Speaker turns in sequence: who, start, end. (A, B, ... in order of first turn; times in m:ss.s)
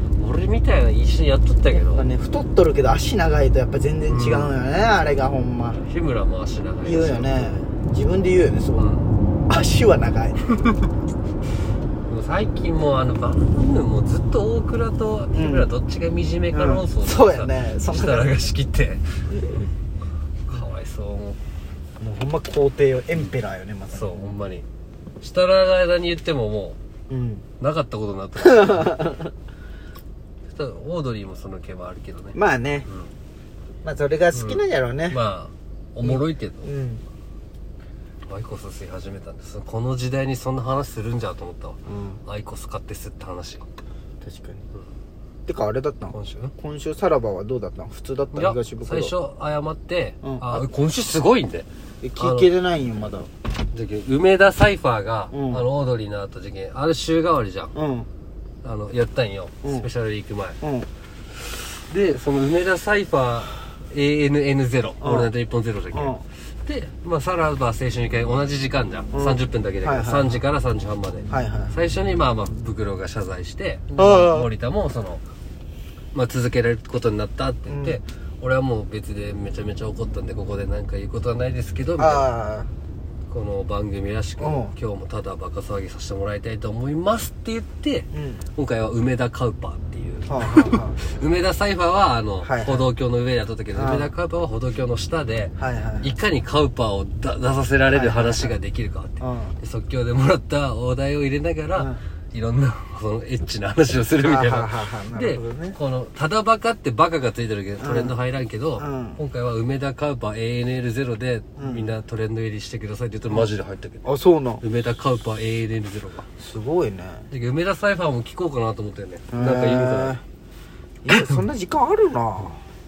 0:00.2-0:02.1 A
0:01.9-0:05.8 B
0:04.1-0:04.5 A
0:05.8-0:07.7 A
0:06.8-0:08.9 B
0:08.8-0:09.1 A
0:09.5-0:10.4 B
0:12.1-0:19.6 A
0:15.3-0:15.7 B
0:16.5-0:18.4 B
0:20.5-0:21.4 A
0:22.0-0:24.4 B
0:23.9-0:24.6 A
0:25.2-0:26.8 A
0:27.1-0:27.4 B
0:27.6-0:29.1 A
0:28.4-0:29.3 B
0:30.5-0:33.1 A
0:32.3-0:32.9 B
0:33.8-0:35.2 B
0:34.3-0:36.7 A
0:36.0-0:37.0 B
0:38.3-0:43.6 A
0:41.9-0:42.2 B
0:44.2-0:44.6 B
0:45.5-0:49.1 B
0:46.1-0:46.5 A
0:48.3-0:51.7 A
0:50.2-0:50.7 B
0:52.0-0:53.3 B
0:52.2-0:52.5 A
0:53.7-0:57.7 A
0:55.3-0:55.6 B
0:57.7-0:58.1 B
0:58.6-1:00.6 A
0:59.6-0:59.9 B
1:00.6-1:00.9 B
1:01.4-1:15.2 A
1:05.0-1:05.3 B
1:05.9-1:06.2 B
1:09.1-1:10.4 B
1:11.3-1:11.8 B
1:14.0-1:14.5 B
1:16.1-1:22.3 A
1:17.7-1:18.0 B
1:22.0-1:22.7 B
1:23.3-1:54.1 A
1:24.4-1:24.7 B
1:28.1-1:28.4 B
1:30.3-1:31.0 B
1:32.4-1:32.9 B
1:33.7-1:34.1 B
1:35.6-1:36.1 B
1:37.9-1:38.6 B
1:39.2-1:39.6 B
1:41.8-1:42.0 B
1:44.2-1:45.8 B
1:47.8-1:48.2 B
1:48.8-1:49.2 B
1:51.6-1:51.9 B
1:54.0-1:54.6 B
1:54.6-1:56.3 A
1:56.4-1:57.3 B
1:57.3-2:00.2 A
1:59.3-2:00.2 B
2:01.0-2:02.6 B
2:01.1-2:01.4 A